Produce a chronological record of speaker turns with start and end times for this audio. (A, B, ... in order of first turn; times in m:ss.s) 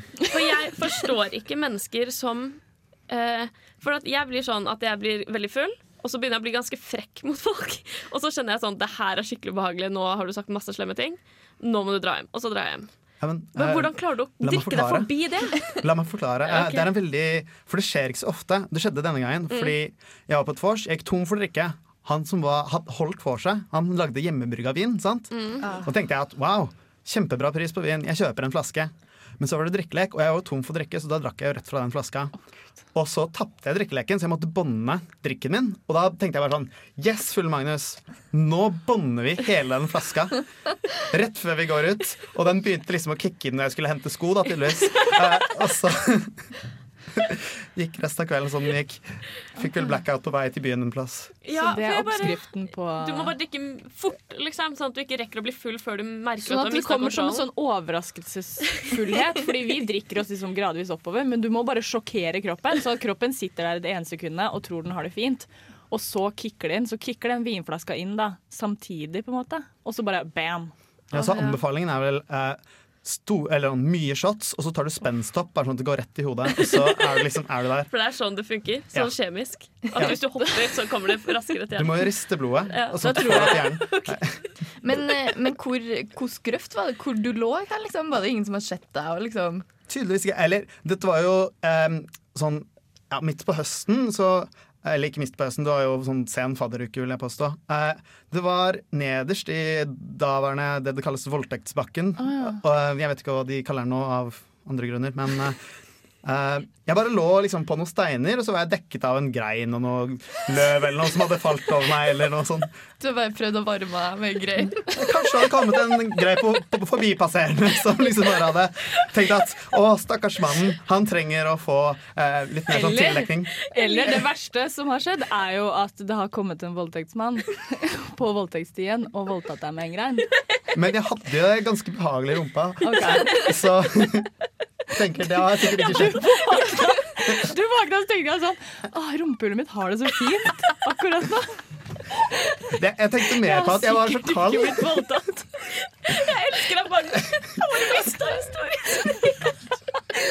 0:00.2-0:12.9 A
0:13.2-0:32.3 B
0:13.5-0:15.8 A
0:16.5-0:16.8 A
0:25.3-0:25.7 A
0:25.6-0:25.9 C
0:32.9-0:46.5 B
0:47.1-0:51.3 B
0:51.4-0:57.4 A
0:51.5-0:53.3 D
0:56.4-1:10.7 D
1:11.1-1:17.9 B
1:11.1-1:11.6 A
1:17.9-1:22.2 A
1:21.8-1:24.3 B
1:22.7-1:24.5 A
1:24.8-1:29.6 C
1:29.9-1:45.6 B
1:42.3-1:42.6 D
1:46.2-1:52.7 B
1:53.0-1:55.1 C
1:55.0-2:03.5 B
2:02.7-2:10.3 D
2:03.7-2:04.2 A
2:10.7-2:14.3 B
2:12.8-2:13.5 D
2:14.9-2:16.4 B
2:15.7-2:21.6 D
2:16.0-2:17.0 A
2:22.7-2:24.9 B
2:23.4-2:25.4 D
2:25.6-2:29.8 A